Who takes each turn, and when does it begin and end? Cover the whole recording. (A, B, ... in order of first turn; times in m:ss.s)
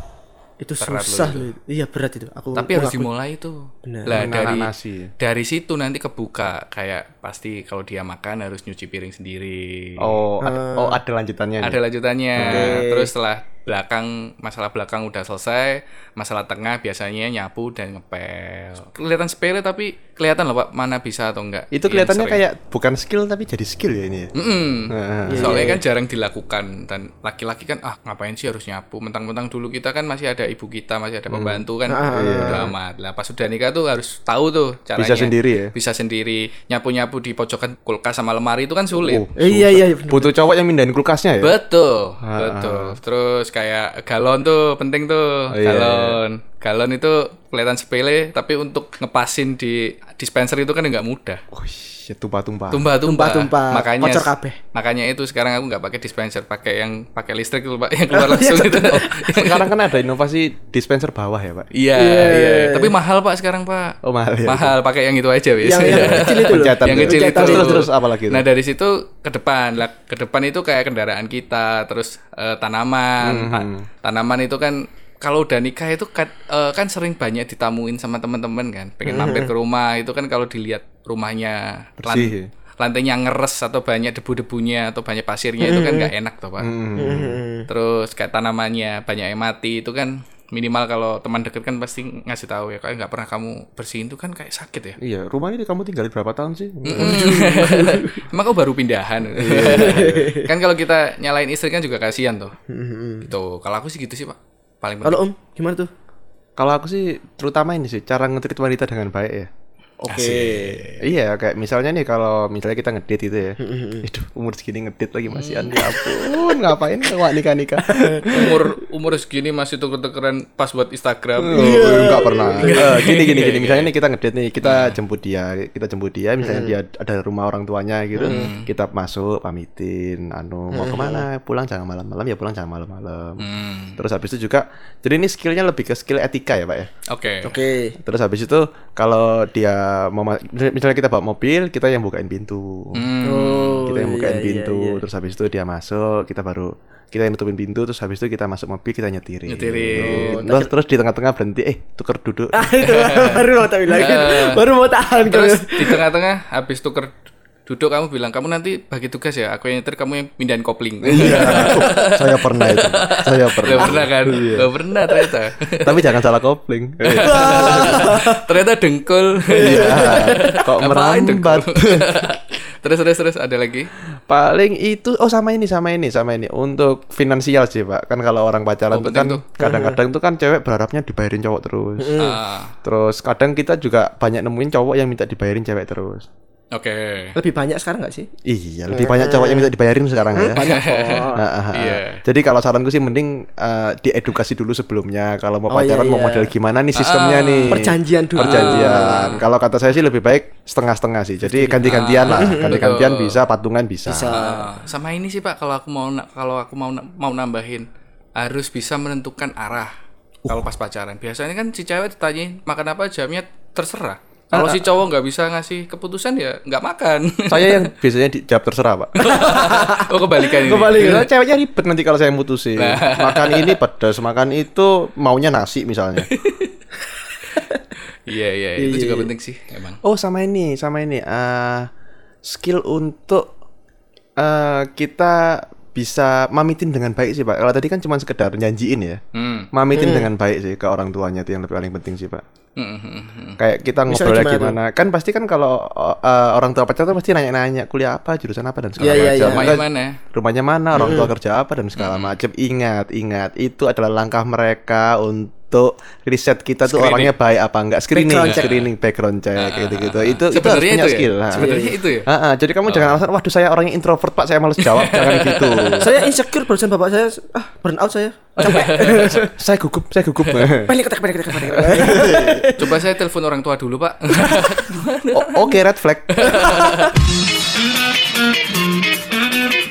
0:00.6-0:03.1 A
0:00.8-0:01.5 B
0:02.6-0:10.2 B
0:03.9-0:04.3 A
0:04.1-0:05.1 C
0:10.0-0:11.8 C
0:10.4-0:11.0 A
0:11.6-0:22.4 B
0:12.4-0:12.9 C
0:12.4-0:13.1 A
0:21.7-0:24.3 C
0:24.4-0:39.3 B
0:24.9-0:25.8 C
0:25.3-0:25.8 A
0:31.3-0:32.7 C
0:31.9-0:32.7 A
0:35.0-0:35.7 C
0:39.0-0:41.6 C
0:39.4-0:40.3 A
0:41.4-0:51.4 B
0:42.2-0:43.0 C
0:45.5-0:46.2 C
0:51.5-0:52.8 C
0:52.7-0:59.7 B
0:53.0-0:54.6 A
0:58.1-0:59.3 A
0:59.3-1:01.7 C
1:01.7-1:26.7 B
1:02.0-1:03.0 A
1:04.0-1:04.8 C
1:05.6-1:07.8 A
1:05.8-1:08.4 C
1:13.2-1:13.9 C
1:19.0-1:19.5 A
1:22.0-1:22.5 C
1:25.6-1:26.1 A
1:26.6-1:27.4 C
1:27.0-1:27.7 A
1:27.7-1:35.0 B
1:35.0-1:38.2 C
1:36.8-1:37.3 A
1:36.9-1:42.6 B
1:39.4-1:40.2 C
1:39.4-1:40.5 A
1:42.7-1:43.3 A
1:43.2-1:45.2 B
1:45.0-1:45.9 A
1:46.6-1:49.5 C
1:50.0-1:50.8 A
1:50.1-1:58.6 C
1:50.1-1:51.0 B
1:53.6-1:54.0 A
1:55.3-1:55.8 B
1:57.8-1:58.6 A
1:58.3-2:03.9 B
2:01.4-2:13.5 C
2:01.5-2:03.0 A
2:04.6-2:05.0 B
2:06.4-2:06.7 A
2:08.2-2:08.5 A
2:08.2-2:08.7 B
2:10.7-2:11.2 A
2:13.4-2:14.0 B
2:14.0-2:16.9 C
2:17.1-2:17.5 B
2:17.4-2:18.0 A
2:18.0-2:23.1 C
2:23.0-2:23.8 B
2:23.2-2:25.0 A
2:23.9-2:32.7 C
2:29.5-2:30.4 B
2:30.0-2:30.7 A
2:32.5-2:36.0 A
2:32.8-2:34.6 B
2:35.2-2:37.1 B
2:37.7-2:46.1 B
2:41.0-2:44.7 C
2:41.2-2:41.7 A
2:45.3-2:48.2 C
2:47.0-2:53.9 B
2:47.2-2:48.4 A
2:49.5-2:50.6 A
2:49.6-2:52.4 C
2:54.3-3:02.2 C
2:58.9-2:59.4 B
2:59.6-3:00.0 A
3:02.0-3:02.4 A
3:02.2-3:02.7 B
3:02.8-3:06.3 C
3:06.7-3:07.4 B
3:07.4-3:08.3 A
3:08.4-3:10.7 C
3:08.9-3:09.7 A
3:10.4-3:11.4 A
3:10.5-3:12.2 B
3:11.4-3:24.4 C
3:15.7-3:16.5 A
3:17.0-3:17.8 B
3:17.7-3:19.3 A
3:18.4-3:19.4 B
3:21.4-3:22.8 A
3:21.8-3:23.4 B
3:24.1-3:24.7 A
3:24.2-3:29.9 B
3:30.5-3:37.9 B
3:34.5-3:34.8 C
3:37.5-3:46.3 C
3:39.2-3:41.3 B
3:39.7-3:40.0 A
3:42.8-3:43.8 B
3:46.3-3:46.7 B
3:48.3-3:50.0 B
3:48.8-3:49.3 A
3:50.0-3:51.9 C
3:52.4-3:53.5 C
3:54.4-3:59.2 C
3:59.3-3:59.7 B
3:59.7-4:02.4 C
4:00.0-4:00.3 A
4:02.8-4:03.6 B
4:03.6-4:26.1 C
4:04.1-4:04.8 A
4:09.0-4:09.8 A
4:09.0-4:10.2 B
4:10.9-4:11.3 A
4:12.0-4:12.4 B
4:16.9-4:17.3 B
4:18.1-4:18.7 A
4:18.4-4:18.9 B
4:19.6-4:22.3 B
4:21.5-4:21.9 A
4:22.9-4:23.2 B
4:24.8-4:26.2 B
4:26.0-4:29.5 A
4:28.6-4:29.4 B
4:28.6-4:31.0 C
4:30.8-4:33.0 A
4:31.6-4:32.7 C
4:32.8-4:35.7 B
4:34.4-4:34.8 A
4:35.3-4:36.6 C
4:36.3-4:37.2 B
4:36.4-4:37.1 A